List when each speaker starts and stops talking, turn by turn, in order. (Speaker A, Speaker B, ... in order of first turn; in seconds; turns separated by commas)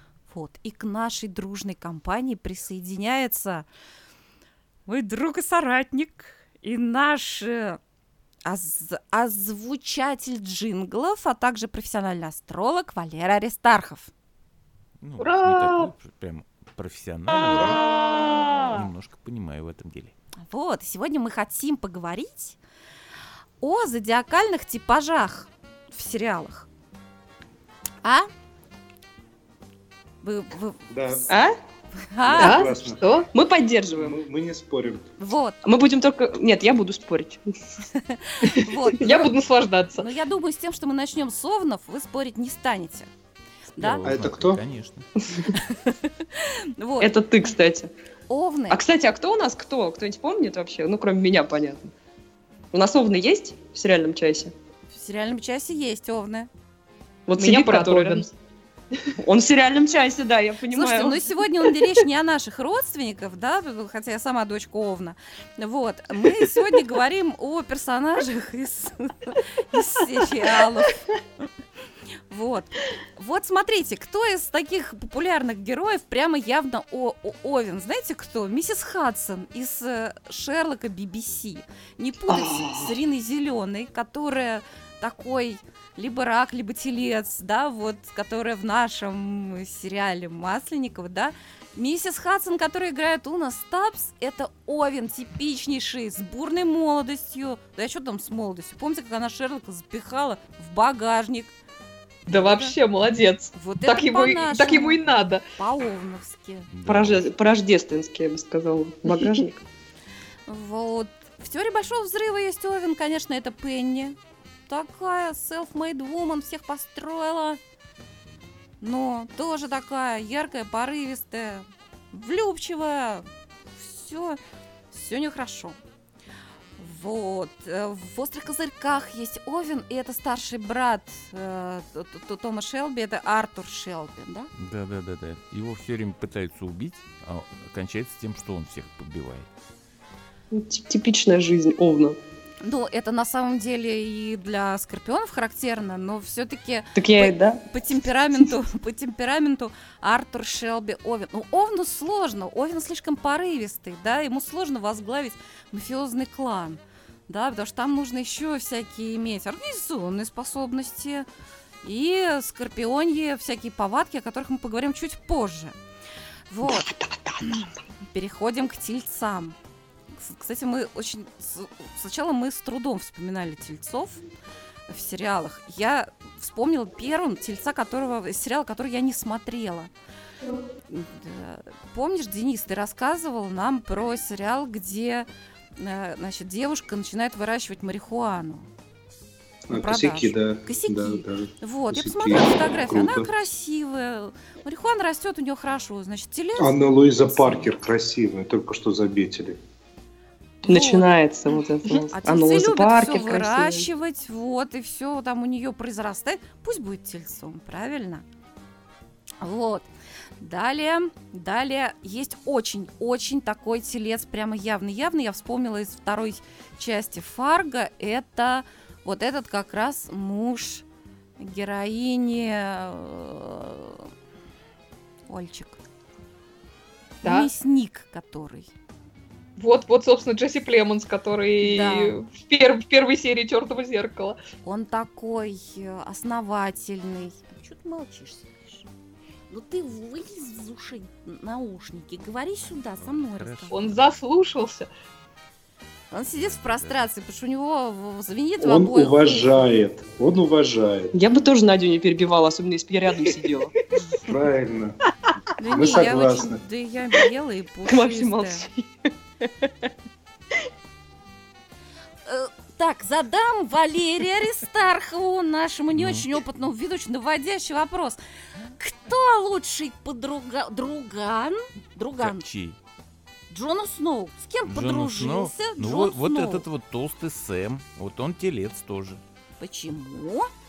Speaker A: 0.3-3.7, Speaker A: 4.9-7.8, Speaker A: 8.5-14.1, Speaker B: 15.0-20.1, Speaker C: 15.2-15.9, Speaker A: 20.5-22.6, Speaker A: 23.6-26.7, Speaker A: 28.0-28.3, Speaker A: 30.2-31.3, Speaker D: 30.9-31.3, Speaker E: 31.3-31.5, Speaker A: 32.0-32.7, Speaker D: 32.2-33.0, Speaker C: 32.4-33.3, Speaker E: 33.3-34.2, Speaker D: 33.9-35.1, Speaker A: 35.2-35.6, Speaker E: 35.6-37.4, Speaker A: 37.9-39.3, Speaker C: 38.4-40.1, Speaker A: 40.0-43.1, Speaker A: 43.8-44.0, Speaker B: 43.8-45.1, Speaker D: 44.0-44.6, Speaker A: 45.5-47.1, Speaker E: 47.0-47.9, Speaker A: 48.3-48.8, Speaker E: 48.7-51.9, Speaker E: 52.7-54.5, Speaker A: 54.9-56.5, Speaker E: 57.3-58.3, Speaker C: 57.4-58.3, Speaker E: 59.2-61.7, Speaker A: 60.7-71.0, Speaker A: 72.3-101.5, Speaker E: 82.3-82.9, Speaker C: 102.3-105.4, Speaker A: 102.3-102.8, Speaker A: 103.5-105.0, Speaker A: 105.6-106.7, Speaker B: 106.7-107.3, Speaker E: 106.9-109.6, Speaker A: 110.5-114.2, Speaker A: 114.7-117.6, Speaker A: 118.8-124.4, Speaker A: 124.9-125.8, Speaker A: 126.8-134.5, Speaker B: 134.6-139.5, Speaker E: 140.5-142.2, Speaker A: 142.6-161.3, Speaker E: 147.0-147.6, Speaker A: 161.8-165.8, Speaker A: 166.5-166.9, Speaker E: 166.6-167.7, Speaker A: 167.5-169.6, Speaker A: 170.2-174.2, Speaker A: 174.9-179.9, Speaker A: 180.9-188.7, Speaker D: 189.7-193.3, Speaker A: 189.7-197.7, Speaker D: 196.6-199.6, Speaker A: 200.7-201.1, Speaker E: 200.7-203.9, Speaker A: 202.1-208.2, Speaker A: 209.4-209.9, Speaker A: 210.4-220.8, Speaker A: 221.4-224.1, Speaker A: 225.3-225.8, Speaker C: 227.2-227.5, Speaker A: 227.2-228.7, Speaker C: 229.6-234.4, Speaker A: 231.6-232.2, Speaker A: 234.7-238.9, Speaker A: 239.5-243.8, Speaker B: 242.6-244.1, Speaker C: 243.7-244.9, Speaker A: 246.1-249.6, Speaker B: 246.3-247.1, Speaker D: 248.6-251.1, Speaker E: 251.1-253.8, Speaker D: 254.2-255.0, Speaker A: 255.6-258.7, Speaker D: 255.6-256.6, Speaker E: 257.9-259.9, Speaker A: 262.3-268.2, Speaker B: 265.9-266.3, Speaker A: 268.8-272.5, Speaker B: 272.2-272.8, Speaker A: 273.5-276.7, Speaker B: 274.7-279.2, Speaker A: 279.6-280.5